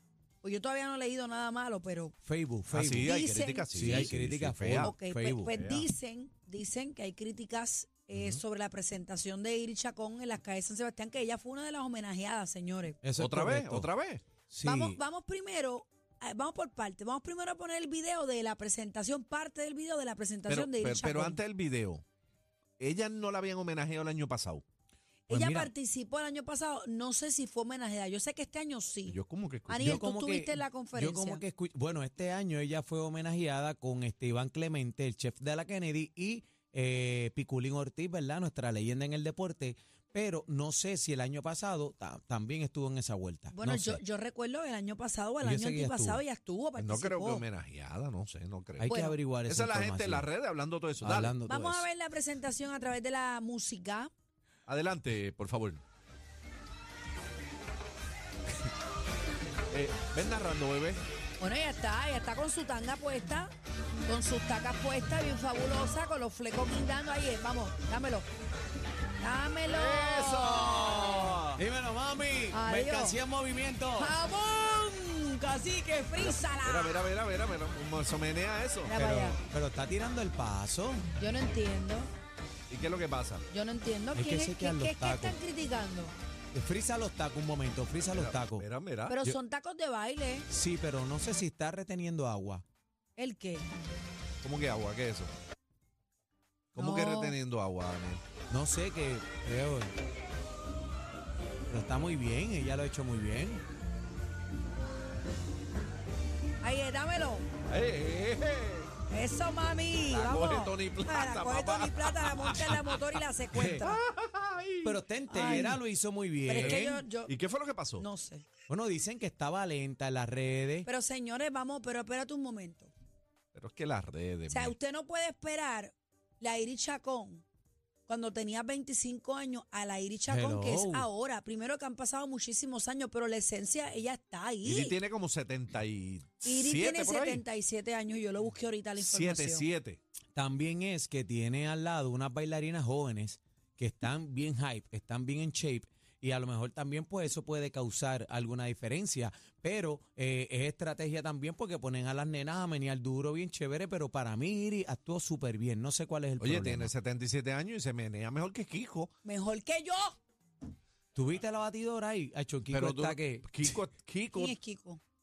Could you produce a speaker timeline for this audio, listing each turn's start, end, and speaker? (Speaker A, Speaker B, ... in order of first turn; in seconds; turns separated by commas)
Speaker A: 0.4-2.1, Speaker B: 2.2-3.2, Speaker C: 2.7-5.9, Speaker A: 3.0-4.1, Speaker B: 3.7-5.5, Speaker A: 4.8-13.0, Speaker C: 8.1-8.4, Speaker B: 13.0-13.9, Speaker C: 13.2-14.2, Speaker B: 14.5-15.0, Speaker A: 14.6-21.4, Speaker C: 20.5-22.0, Speaker C: 22.8-24.6, Speaker A: 25.3-31.4, Speaker B: 25.3-25.7, Speaker C: 29.1-30.0, Speaker B: 29.8-44.0, Speaker A: 43.5-47.5, Speaker B: 45.4-46.2, Speaker C: 46.8-48.9, Speaker B: 48.8-50.3, Speaker A: 48.9-49.2, Speaker C: 49.5-51.4, Speaker B: 51.0-51.9, Speaker A: 51.5-54.1, Speaker C: 54.7-55.8, Speaker C: 59.7-61.0, Speaker A: 61.4-63.5, Speaker A: 64.0-68.3, Speaker A: 69.2-70.6, Speaker C: 69.7-71.6, Speaker B: 70.8-74.1, Speaker A: 72.5-73.2, Speaker A: 74.0-77.1, Speaker C: 76.2-79.4, Speaker A: 78.9-79.4, Speaker B: 79.5-81.0, Speaker A: 81.2-82.1, Speaker C: 82.7-83.4, Speaker A: 83.5-86.1, Speaker B: 84.1-85.4, Speaker B: 86.5-88.6, Speaker C: 88.1-89.3, Speaker A: 89.1-90.5, Speaker B: 90.5-92.6, Speaker A: 93.2-93.7, Speaker C: 94.4-95.3, Speaker C: 96.7-98.2, Speaker A: 96.8-97.4, Speaker B: 98.5-99.9, Speaker B: 101.7-103.6, Speaker A: 106.6-107.5, Speaker C: 107.7-108.9, Speaker A: 109.1-114.0, Speaker C: 110.1-113.0, Speaker C: 113.5-115.8, Speaker B: 113.5-113.8, Speaker B: 114.8-117.1, Speaker A: 115.3-115.8, Speaker A: 116.4-117.3, Speaker C: 116.6-118.0, Speaker A: 118.0-118.5, Speaker B: 118.7-120.9, Speaker A: 120.8-122.9, Speaker C: 123.5-124.7, Speaker A: 124.5-127.4, Speaker A: 128.1-135.0, Speaker B: 130.3-131.1, Speaker C: 134.6-137.4, Speaker A: 136.4-139.7, Speaker C: 139.0-140.0, Speaker B: 140.3-156.9, Speaker C: 156.4-159.1, Speaker A: 159.2-160.2, Speaker B: 161.1-163.7, Speaker C: 162.7-164.6, Speaker A: 164.3-165.0